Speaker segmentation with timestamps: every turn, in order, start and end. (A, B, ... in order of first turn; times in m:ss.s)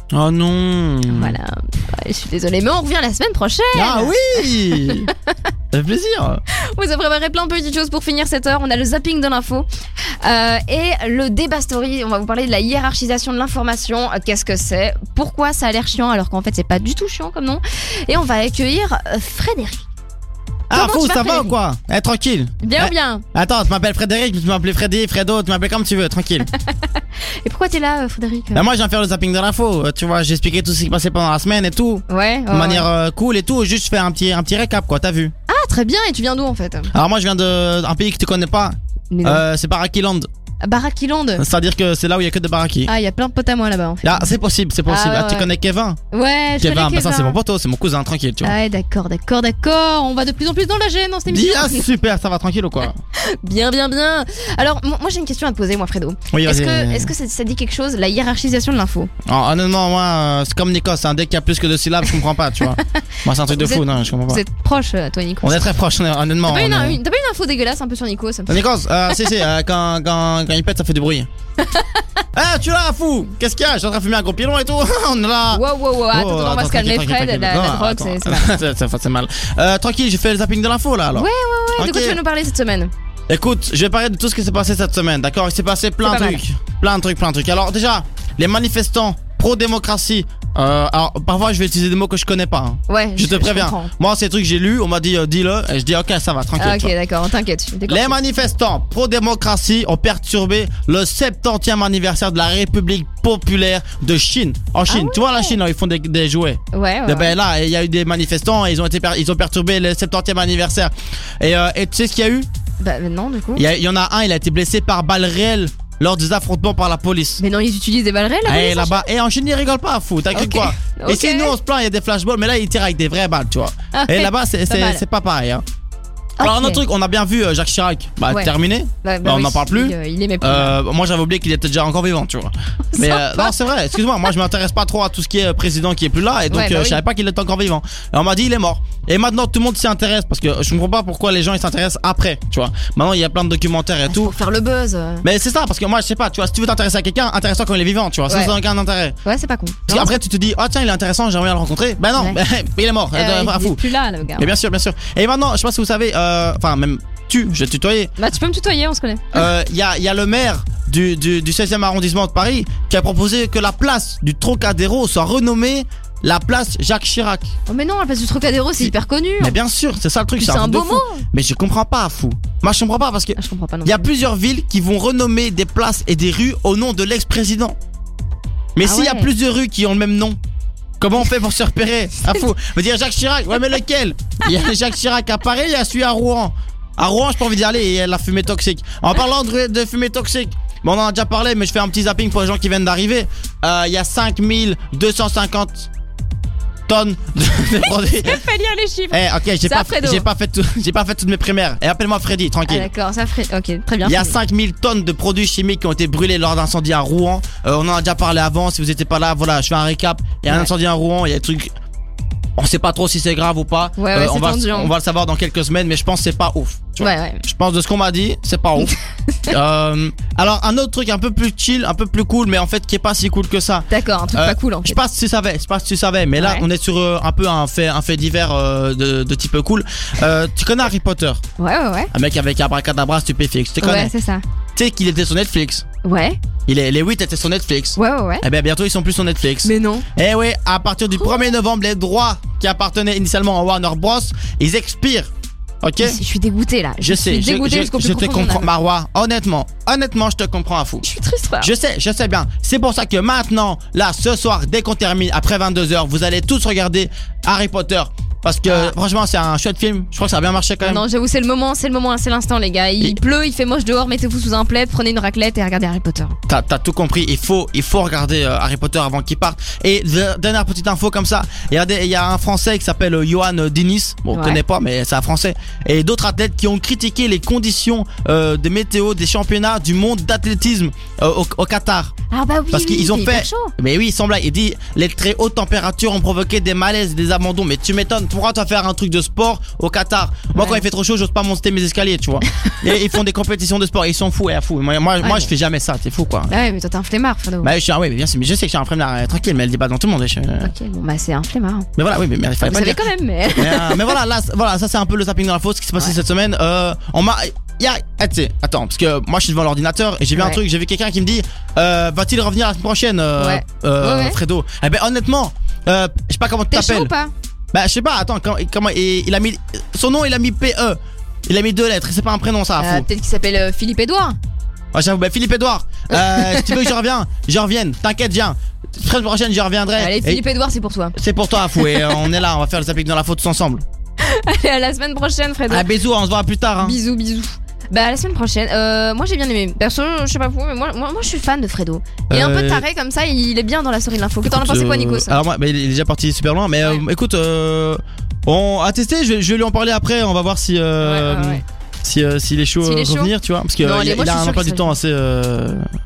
0:00.1-0:01.4 A
0:01.0-0:05.1 B
0:03.7-0:05.1 A
0:05.7-0:06.4 A
0:06.6-0:09.7 B
0:10.2-0:19.9 B
0:20.7-0:21.6 B
0:20.7-0:26.5 A
0:22.6-0:23.2 B
0:27.4-0:28.7 B
0:28.5-0:35.3 A
0:32.1-0:32.9 B
0:35.5-0:36.9 B
0:36.9-0:40.3 A
0:39.1-0:39.4 B
0:40.6-0:41.4 B
0:41.4-0:42.9 A
0:42.9-0:44.3 B
0:44.0-0:46.0 A
0:44.9-0:45.5 B
0:46.1-0:47.4 B
0:46.6-0:48.6 A
0:48.4-0:51.9 B
0:51.3-0:53.0 A
0:53.1-0:59.1 B
0:56.3-0:57.1 A
0:59.3-1:04.4 A
1:03.5-1:05.6 B
1:05.4-1:07.0 A
1:06.4-1:09.3 B
1:08.5-1:11.3 A
1:11.6-1:12.0 B
1:12.3-1:22.2 A
1:15.5-1:18.6 B
1:21.1-1:22.9 B
1:23.3-1:36.9 A
1:26.0-1:26.4 B
1:32.9-1:33.9 B
1:36.6-1:38.2 B
1:37.9-1:52.5 A
1:44.9-1:45.6 B
1:46.7-1:47.4 B
1:52.8-1:53.6 B
1:53.6-1:57.4 A
1:57.4-1:59.1 B
1:58.4-2:05.6 A
2:00.3-2:01.6 B
2:03.9-2:05.0 B
2:06.4-2:06.8 B
2:06.4-2:24.3 A
2:08.3-2:10.8 B
2:12.9-2:13.6 B
2:16.5-2:17.0 B
2:24.1-2:25.2 B
2:25.2-2:29.2 A
2:28.3-2:28.5 B
2:29.2-2:30.2 B
2:29.8-2:33.8 A
2:33.1-2:34.5 B
2:34.4-2:38.1 A
2:38.2-2:39.4 B
2:39.3-2:47.5 A
2:47.7-2:49.6 B
2:48.8-2:57.8 A
2:50.4-2:51.2 B
2:53.4-2:54.1 B
2:58.8-3:00.4 A
2:58.8-2:59.3 B
3:01.0-3:15.9 A
3:16.9-3:18.5 A
3:17.8-3:20.2 B
3:19.1-3:22.9 A
3:22.7-3:24.4 B
3:24.0-3:31.7 A
3:32.6-3:38.9 A
3:34.0-3:34.9 B
3:37.0-3:37.4 B
3:38.8-3:39.5 B
3:39.5-3:51.4 A
3:43.9-3:45.0 B
3:46.4-3:46.6 B
3:51.6-3:52.1 B
3:52.1-3:54.1 A
3:53.8-3:54.4 B
3:54.8-3:55.8 A
3:56.0-3:56.4 B
3:56.7-4:05.3 A
3:58.0-3:58.4 B
3:59.6-4:00.1 B
4:01.2-4:01.4 B
4:05.8-4:06.2 A
4:06.0-4:08.7 B
4:07.0-4:11.0 A
4:11.0-4:11.7 B
4:11.6-4:21.0 A
4:18.6-4:18.9 B
4:20.8-4:26.4 B
4:26.5-4:42.1 A
4:34.3-4:34.6 B
4:42.3-4:43.7 B
4:42.7-4:56.5 A
4:50.5-4:50.8 B
4:55.2-4:55.5 B
4:56.5-4:57.7 B
4:57.6-5:00.7 A
5:00.6-5:01.9 B
5:02.0-5:17.1 A
5:02.6-5:04.1 B
5:10.3-5:10.6 B
5:13.4-5:14.4 B
5:16.7-5:17.3 B
5:17.7-5:23.0 A
5:22.8-5:24.4 B
5:24.9-5:30.4 A
5:26.1-5:26.9 B
5:29.9-5:31.2 B
5:31.2-5:33.8 A
5:31.7-5:32.3 B
5:34.2-5:35.9 B
5:35.7-5:37.0 A
5:36.8-5:45.4 B
5:42.3-5:42.8 A
5:44.4-5:55.9 A
5:51.0-5:51.6 B
5:52.8-5:55.0 B